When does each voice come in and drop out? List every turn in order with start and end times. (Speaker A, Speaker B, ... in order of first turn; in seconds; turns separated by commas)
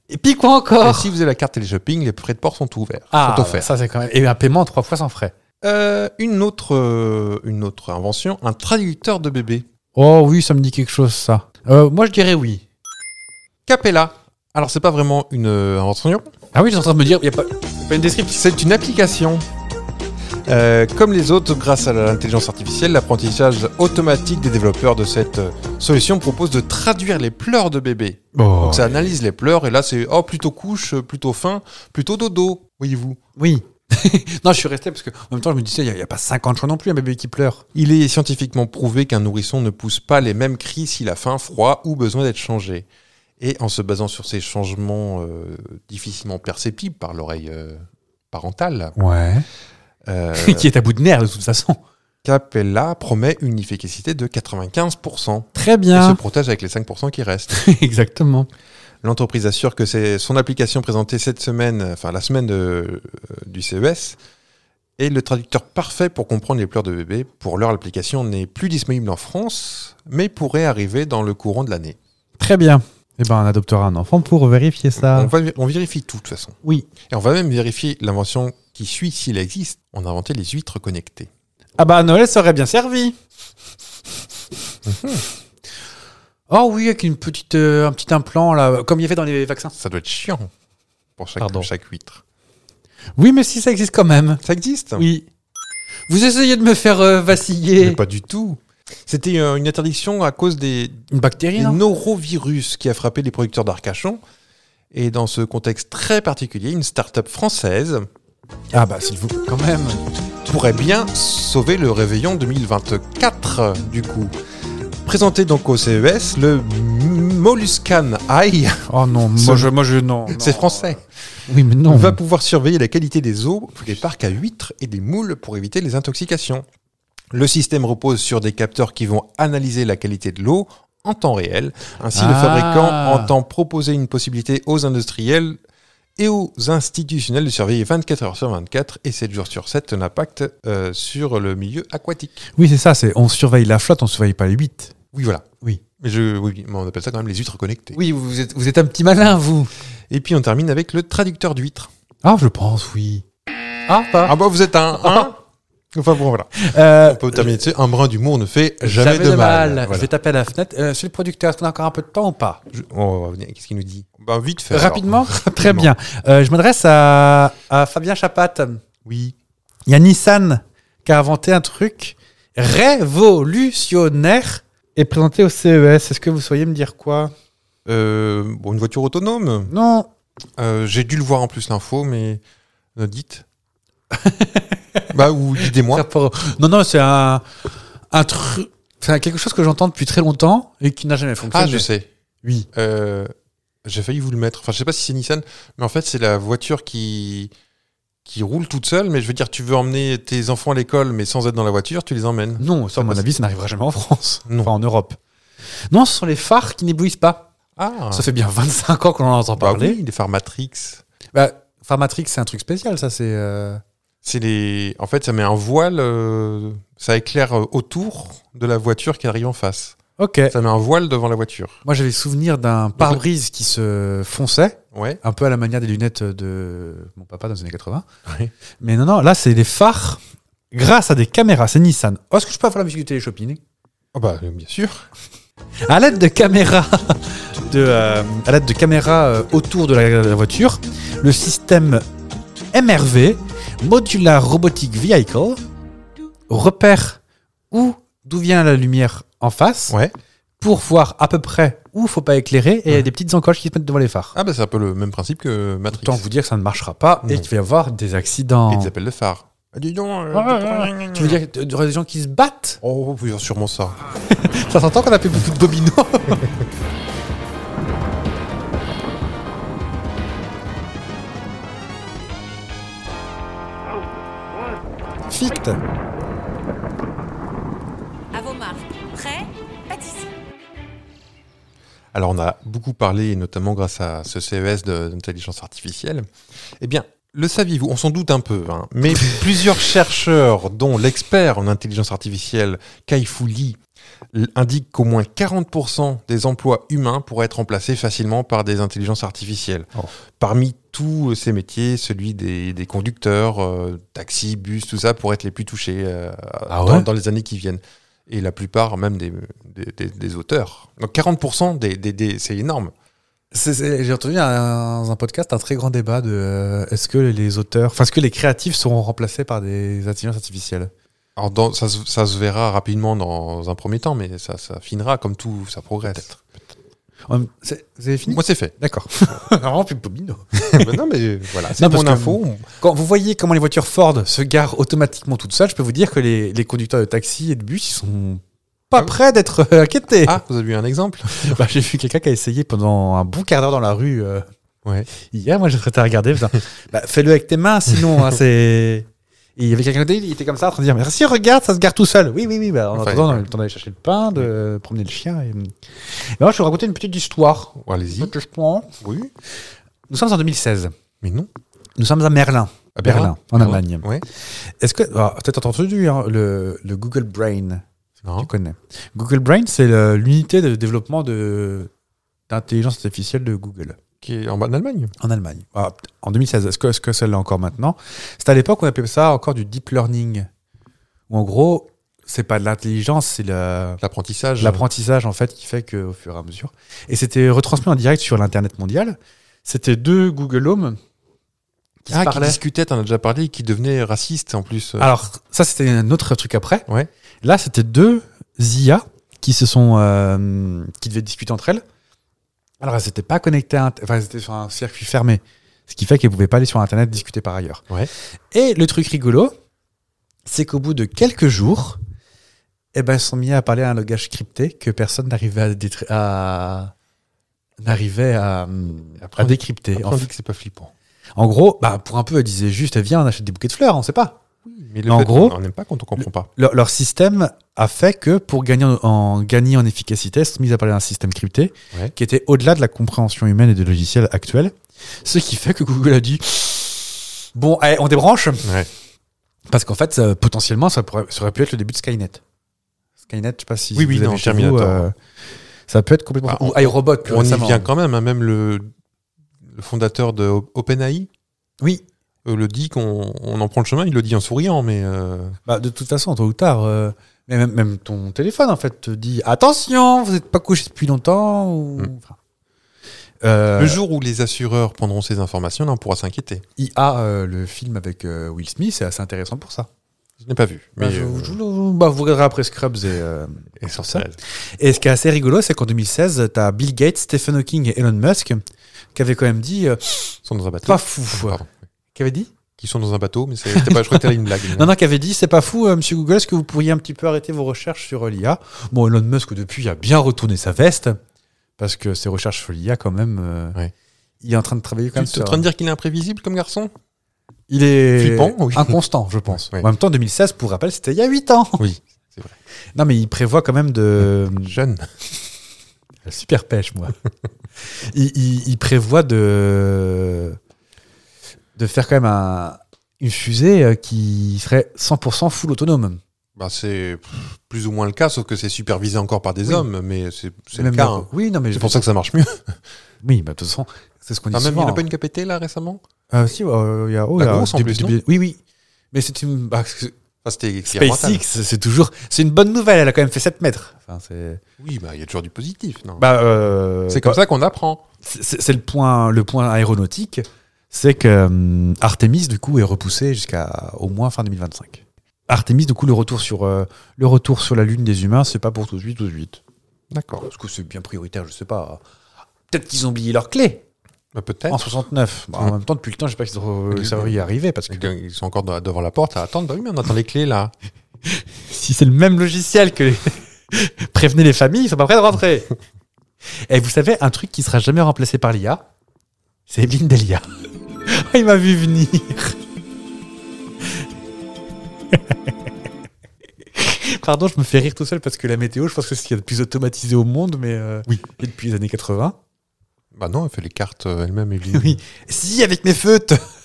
Speaker A: 0.1-1.1, Speaker B: 0.8-3.7, Speaker A: 3.1-5.3, Speaker B: 5.6-9.7, Speaker A: 9.9-12.7, Speaker B: 13.7-16.3, Speaker A: 16.5-18.4, Speaker B: 18.3-19.5, Speaker B: 20.5-33.2, Speaker A: 28.3-29.1, Speaker A: 33.4-37.6, Speaker B: 37.7-42.9, Speaker B: 43.4-49.0, Speaker A: 49.0-49.5, Speaker B: 50.1-50.7, Speaker A: 50.4-51.8, Speaker B: 52.2-57.6, Speaker A: 55.5-56.2, Speaker A: 57.5-58.5, Speaker B: 59.0-64.2, Speaker B: 65.0-72.0, Speaker A: 72.4-75.3, Speaker B: 75.0-81.3, Speaker A: 81.8-83.2, Speaker B: 84.9-85.2, Speaker A: 86.5-89.8, Speaker B: 89.8-90.5, Speaker B: 91.2-92.2, Speaker A: 91.4-91.7, Speaker A: 93.2-94.4, Speaker B: 94.4-95.1, Speaker A: 95.0-95.3, Speaker A: 96.1-98.0, Speaker B: 97.8-104.2, Speaker A: 101.1-101.8, Speaker B: 104.9-108.1, Speaker A: 108.7-110.0, Speaker B: 110.4-114.3, Speaker B: 115.0-119.7, Speaker A: 118.9-122.2, Speaker B: 120.3-121.0, Speaker B: 121.8-126.7, Speaker B: 127.3-135.6, Speaker A: 132.1-133.3, Speaker B: 136.2-142.5, Speaker A: 142.5-144.9, Speaker B: 145.1-145.5, Speaker B: 146.0-148.0, Speaker A: 147.9-149.7, Speaker B: 150.1-151.9, Speaker A: 152.2-153.2, Speaker A: 153.9-154.3, Speaker B: 154.2-155.4, Speaker A: 155.0-155.3, Speaker B: 155.9-160.1, Speaker A: 156.6-157.6, Speaker A: 158.8-162.6, Speaker B: 162.7-165.9, Speaker A: 164.7-168.8, Speaker B: 169.1-169.3, Speaker A: 169.9-177.3, Speaker B: 177.9-179.7, Speaker A: 179.7-180.1, Speaker B: 180.6-182.4, Speaker B: 183.0-183.4, Speaker A: 184.1-191.9, Speaker B: 185.1-186.1, Speaker B: 191.5-192.1, Speaker B: 192.7-193.3, Speaker B: 193.8-197.5, Speaker B: 198.2-203.2, Speaker A: 202.6-205.2, Speaker A: 205.9-207.5, Speaker B: 207.8-208.3, Speaker A: 208.1-210.0, Speaker B: 209.6-211.0, Speaker A: 211.3-213.8, Speaker B: 214.2-220.0, Speaker A: 220.2-220.6, Speaker B: 220.5-221.8, Speaker A: 221.8-228.1, Speaker B: 224.9-225.2, Speaker B: 228.3-228.5, Speaker A: 228.8-230.2, Speaker A: 230.7-233.6, Speaker B: 234.1-235.1, Speaker A: 235.9-242.1, Speaker A: 242.7-245.6, Speaker A: 246.5-247.2, Speaker A: 247.7-249.9, Speaker B: 249.9-250.1, Speaker A: 250.6-254.3, Speaker B: 254.3-256.2, Speaker A: 255.9-258.9, Speaker B: 258.7-261.4, Speaker A: 260.3-262.8, Speaker B: 262.8-264.0, Speaker A: 264.3-266.6, Speaker A: 275.3-275.8, Speaker C: 278.3-280.3, Speaker B: 282.1-286.3, Speaker B: 286.8-293.8, Speaker B: 294.3-312.9, Speaker A: 306.7-307.1, Speaker A: 313.5-320.9, Speaker B: 321.4-326.6, Speaker A: 327.3-330.9, Speaker B: 328.3-328.8, Speaker B: 330.6-332.7, Speaker A: 331.7-340.4, Speaker B: 340.2-341.6, Speaker A: 341.4-344.5, Speaker A: 345.2-349.1, Speaker A: 349.6-359.0, Speaker B: 352.9-353.4, Speaker B: 357.8-358.3, Speaker B: 359.0-359.3, Speaker A: 360.1-360.9, Speaker B: 361.2-361.5, Speaker A: 362.0-364.1, Speaker B: 362.9-364.2, Speaker A: 364.8-371.9, Speaker A: 372.5-374.0, Speaker B: 374.2-375.1, Speaker A: 375.2-380.5, Speaker A: 381.3-384.0, Speaker B: 384.0-384.9, Speaker A: 384.6-391.0, Speaker A: 392.0-392.6, Speaker B: 392.1-395.1, Speaker A: 395.0-396.9, Speaker A: 397.4-401.8, Speaker A: 402.8-407.9, Speaker A: 408.5-409.5, Speaker A: 410.5-412.0, Speaker A: 412.9-416.9, Speaker A: 417.8-420.3, Speaker B: 419.2-420.9, Speaker A: 421.4-424.4, Speaker B: 424.6-426.5, Speaker A: 425.1-425.6, Speaker A: 426.2-438.7, Speaker B: 438.6-438.9, Speaker A: 439.7-442.4, Speaker A: 443.2-445.2, Speaker B: 443.9-445.1, Speaker A: 445.9-447.9, Speaker B: 446.5-448.9, Speaker B: 449.7-451.3, Speaker B: 452.4-455.6, Speaker A: 455.7-462.4, Speaker A: 463.4-464.0, Speaker B: 463.8-466.6, Speaker A: 466.8-469.9, Speaker B: 470.4-471.6, Speaker A: 471.0-474.2, Speaker B: 473.8-474.4, Speaker A: 474.8-478.6, Speaker A: 479.1-481.6, Speaker B: 480.4-481.7, Speaker A: 482.1-482.5, Speaker B: 482.8-484.9, Speaker A: 483.7-491.2, Speaker A: 491.8-493.8, Speaker A: 494.4-495.7, Speaker B: 495.1-496.9, Speaker A: 497.7-501.9, Speaker B: 498.2-499.0, Speaker B: 499.5-499.9, Speaker B: 501.8-502.6, Speaker A: 502.9-504.8, Speaker B: 504.6-505.1, Speaker A: 506.2-507.1, Speaker A: 507.9-510.6, Speaker A: 511.8-516.2, Speaker B: 516.6-522.8, Speaker A: 520.8-522.0, Speaker A: 523.2-525.0, Speaker B: 524.5-526.0, Speaker A: 526.3-528.6, Speaker B: 527.4-528.2, Speaker A: 529.1-530.1, Speaker B: 530.4-531.4, Speaker A: 530.9-534.6, Speaker B: 534.8-536.3, Speaker A: 536.2-537.4, Speaker B: 537.1-538.0, Speaker A: 538.2-549.6, Speaker B: 550.1-550.5, Speaker A: 550.5-552.0, Speaker A: 552.7-553.8, Speaker B: 554.3-554.9, Speaker A: 554.7-558.1, Speaker B: 556.9-557.4, Speaker B: 557.9-560.7, Speaker A: 561.2-565.7, Speaker A: 566.7-568.8, Speaker A: 569.7-570.5, Speaker A: 571.1-572.6, Speaker A: 575.1-575.7, Speaker A: 576.8-582.4, Speaker B: 583.1-585.0, Speaker A: 584.7-586.5